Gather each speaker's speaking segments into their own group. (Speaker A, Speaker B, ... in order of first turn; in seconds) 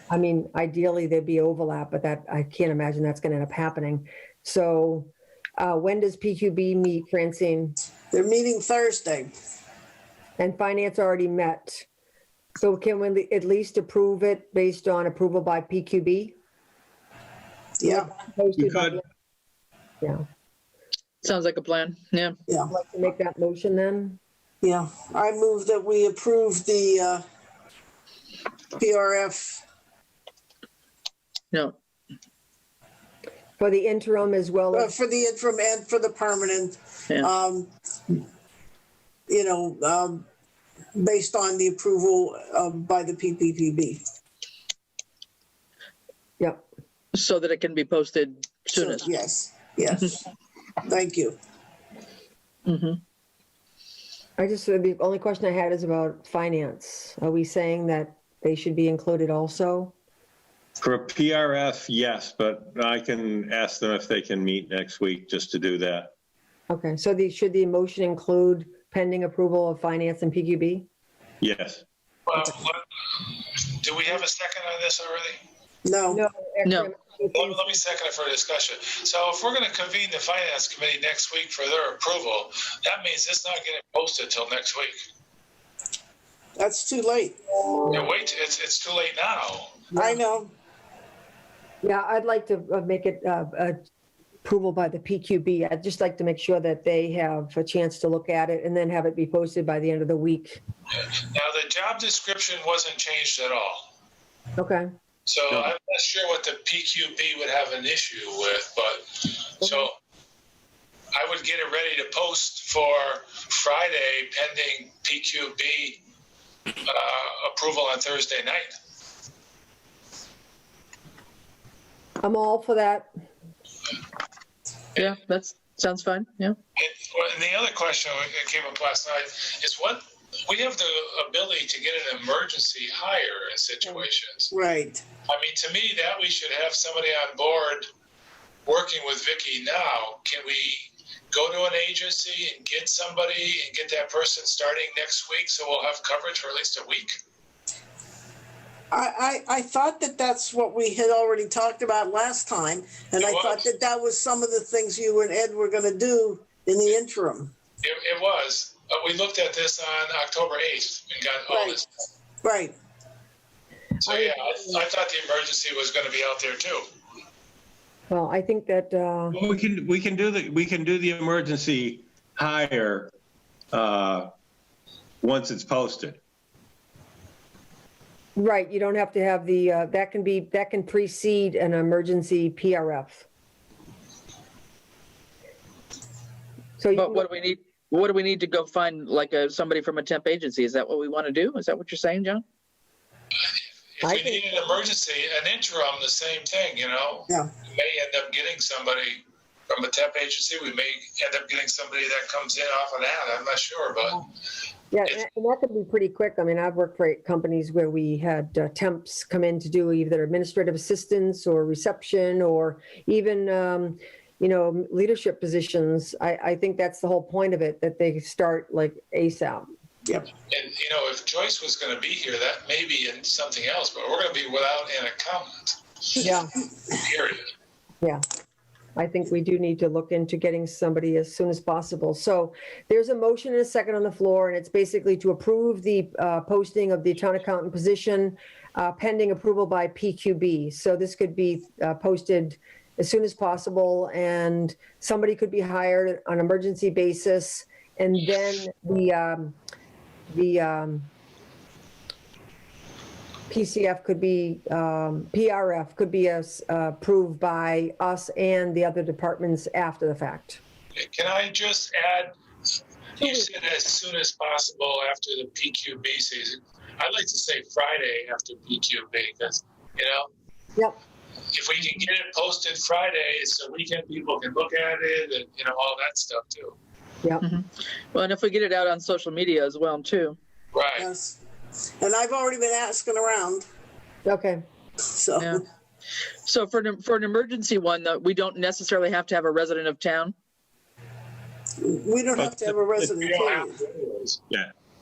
Speaker A: 0.1-7.8, 10.4-11.8, 12.6-16.3, 17.8-19.0, 22.7-24.2, 33.6-34.9, 54.4-59.9, 66.7-70.8, 76.1-77.7, 90.0-90.2, 91.8-93.8, 94.4-100.6, 104.6-104.9, 109.6-109.9, 122.2-123.1, 164.1-164.8, 168.1-169.4, 178.3-183.2, 186.8-187.3, 194.0-194.5, 204.9-219.7, 226.2-226.5, 228.9-249.6, 250.3-251.1, 253.5-260.6, 263.2-263.5, 284.2-284.6
Speaker B: 8.1-9.3, 17.8-18.1, 24.6-27.2, 28.8-29.6, 34.7-38.2, 39.3-40.2, 40.9-44.0, 48.7-50.2, 50.9-51.4, 75.8-76.2, 86.5-87.4, 89.9-90.5, 134.5-135.0, 148.9-157.5, 161.5-161.8, 162.4-162.7, 280.9-281.4, 282.0-283.6, 285.1-285.6, 291.8-293.8
Speaker C: 18.6-19.0, 60.8-66.1, 71.4-71.8, 169.3-173.1, 173.7-174.3, 175.2-176.2, 292.4-293.1
Speaker D: 21.2-22.3, 47.1-49.1, 52.7-53.0, 76.6-76.9, 125.0-126.6, 186.9-192.4, 277.4-280.4, 286.4-290.3
Speaker E: 72.3-75.4, 77.3-85.0, 87.9-89.9, 101.2-103.9, 105.3-109.9, 111.1-116.0, 116.8-118.7, 126.8-134.5, 135.3-137.8, 138.7-147.2, 153.2-153.7, 157.8-162.0, 164.0-166.8, 194.0-204.2, 220.5-226.3, 226.9-227.5, 261.0-262.3, 263.2-270.3, 271.5-276.8, 280.7-281.1, 293.2-294.4